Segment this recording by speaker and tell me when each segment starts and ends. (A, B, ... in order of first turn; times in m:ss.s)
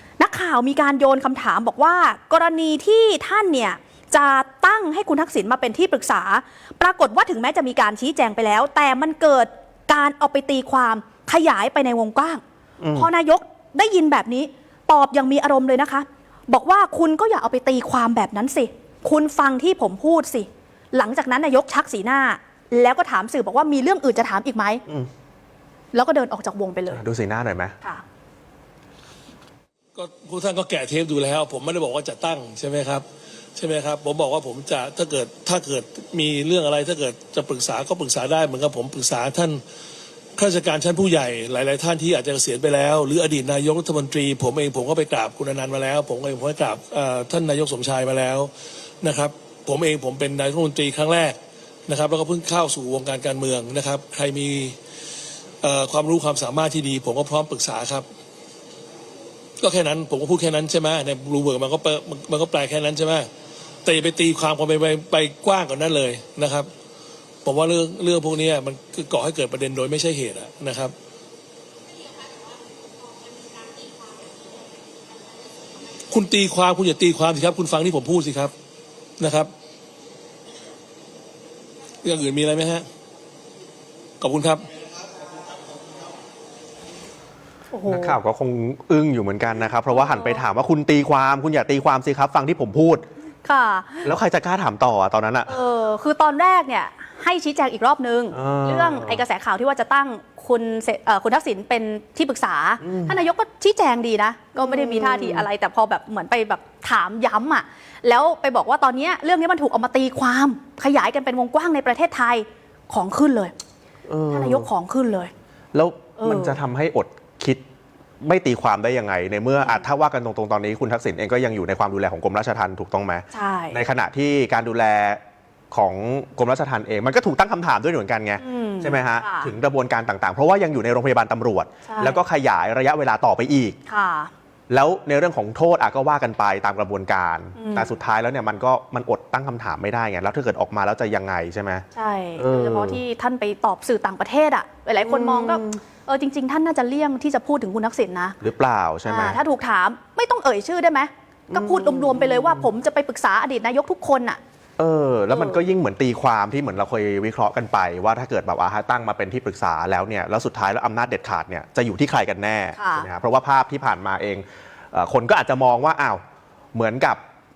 0:00.2-0:12.4 A
0:12.8-0:13.1 B
0:12.9-0:24.8 A
0:25.9-0:27.0 A
0:26.9-0:27.8 B
0:29.9-0:33.0 C
0:33.6-0:39.6 C
0:40.4-0:48.5 C
0:49.0-0:54.8 C
0:55.6-0:58.0 C
0:59.6-1:03.3 C
1:03.8-1:06.7 C
1:07.4-1:10.9 C
1:16.1-1:18.5 C
1:19.2-1:19.5 C
1:22.0-1:22.8 C
1:24.2-1:24.7 C
1:27.7-1:28.2 A
1:27.8-1:33.0 B
1:29.9-1:30.4 A
1:33.4-1:34.1 A
1:34.0-1:35.6 B
1:35.5-1:53.5 A
1:38.3-1:39.2 B
1:42.8-1:43.2 B
1:44.6-1:45.5 B
1:54.1-1:54.7 B
1:54.3-1:55.3 A
1:55.7-1:57.6 B
1:56.2-1:56.6 A
1:58.2-2:05.2 B
2:03.3-2:03.8 A
2:05.7-2:13.8 B
2:08.4-2:09.5 A
2:11.8-2:12.2 A
2:13.9-2:14.3 A
2:14.7-2:21.8 B
2:17.6-2:17.9 A
2:21.9-2:28.4 A
2:22.4-2:23.0 B
2:25.0-2:25.8 B
2:28.4-2:29.4 B
2:29.0-2:34.4 A
2:31.5-2:32.7 B
2:34.8-2:46.2 B
2:35.3-2:35.6 A
2:42.8-2:43.1 A
2:46.7-2:47.2 B